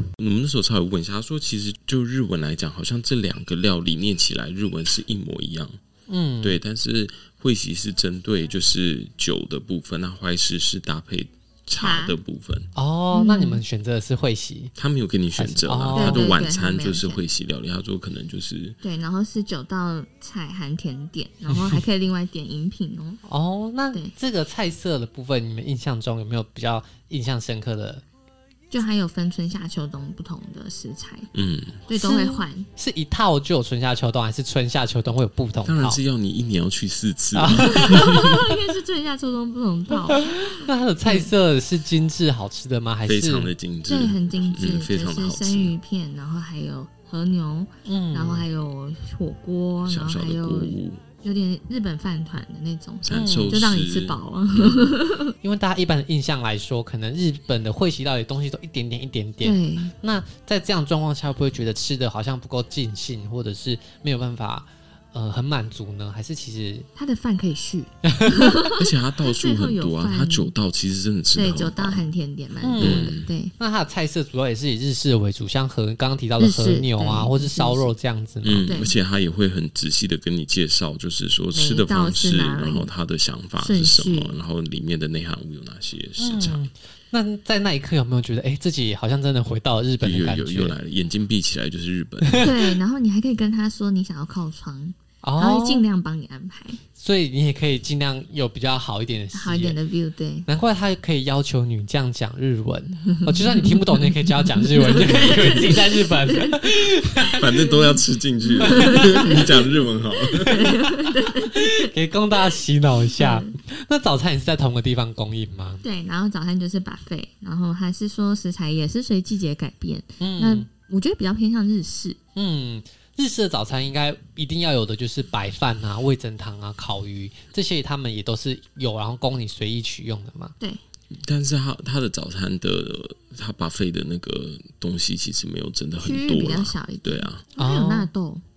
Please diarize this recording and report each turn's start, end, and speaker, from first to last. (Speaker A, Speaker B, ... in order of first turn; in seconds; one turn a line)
Speaker A: 0.2-5.8
Speaker B: 6.1-6.6
Speaker A: 6.4-12.7
Speaker C: 11.7-12.2
Speaker B: 12.8-14.7
Speaker C: 13.1-13.6
Speaker A: 14.8-18.8
Speaker B: 15.4-16.3
Speaker C: 15.9-17.2
Speaker C: 18.8-23.2
Speaker B: 23.3-28.0
Speaker C: 28.7-31.3
Speaker A: 31.4-31.8
Speaker C: 31.9-32.7
Speaker B: 32.0-36.0
Speaker A: 35.6-38.2
Speaker B: 37.4-38.4
Speaker C: 37.6-41.3
Speaker B: 40.3-43.5
Speaker A: 43.1-45.8
Speaker C: 43.9-55.3
Speaker B: 47.9-48.5
Speaker A: 49.9-51.0
Speaker A: 53.0-54.9
Speaker B: 53.1-53.6
Speaker B: 55.4-66.9
Speaker C: 59.4-59.9
Speaker C: 67.0-70.5
Speaker B: 68.1-68.5
Speaker A: 68.7-72.1
Speaker C: 71.3-73.5
Speaker B: 72.6-78.7
Speaker A: 72.8-73.3
Speaker C: 76.4-77.9
Speaker A: 78.4-86.6
Speaker C: 78.7-78.9
Speaker C: 81.5-82.9
Speaker C: 83.6-84.3
Speaker B: 86.2-90.8
Speaker A: 90.0-92.5
Speaker B: 92.2-92.5
Speaker C: 92.4-96.8
Speaker B: 95.2-95.8
Speaker B: 97.0-99.8
Speaker C: 99.3-100.5
Speaker B: 100.5-107.4
Speaker C: 103.1-111.9
Speaker A: 107.3-110.9
Speaker B: 108.6-109.4
Speaker B: 111.5-115.8
Speaker C: 113.2-113.6
Speaker C: 115.8-122.2
Speaker B: 120.2-120.7
Speaker B: 122.4-130.6
Speaker A: 131.1-137.4
Speaker C: 136.0-138.4
Speaker B: 137.6-138.1